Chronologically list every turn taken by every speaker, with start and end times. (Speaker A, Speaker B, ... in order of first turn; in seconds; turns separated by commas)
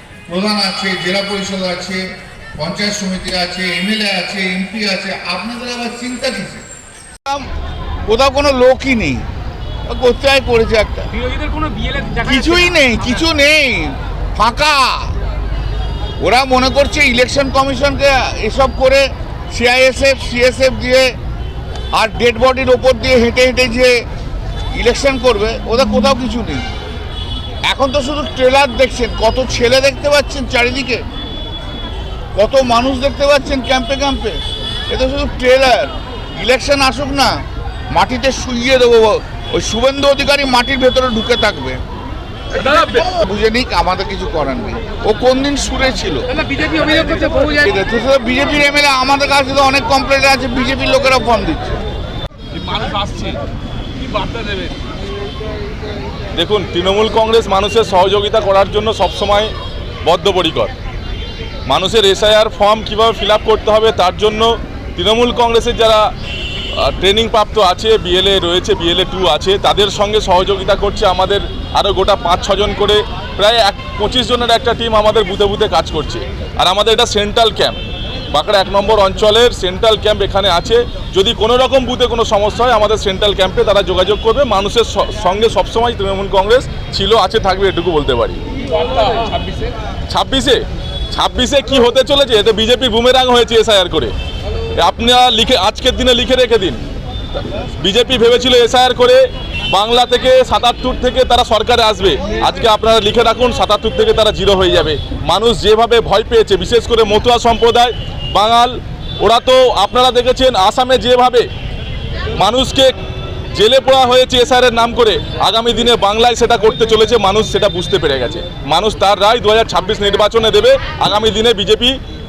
Speaker A: 0.3-2.0, Speaker A: 2.6-6.6, Speaker A: 8.1-9.2, Speaker A: 9.9-11.1, Speaker B: 11.2-12.9, Speaker A: 12.1-15.1, Speaker A: 16.2-21.1, Speaker A: 21.9-24.0, Speaker A: 24.7-26.7, Speaker A: 27.7-31.0, Speaker A: 32.4-37.4, Speaker A: 37.9-41.8, Speaker A: 42.6-51.8, Speaker B: 52.6-53.4, Speaker C: 52.8-53.3, Speaker B: 54.3-54.7, Speaker C: 56.3-59.5, Speaker C: 60.0-60.7, Speaker C: 61.7-66.1, Speaker C: 66.8-77.8, Speaker C: 78.3-89.5, Speaker C: 90.1-90.6, Speaker C: 91.1-94.1, Speaker C: 94.8-96.8, Speaker C: 97.3-111.5, Speaker C: 112.4-112.9, Speaker C: 113.5-122.0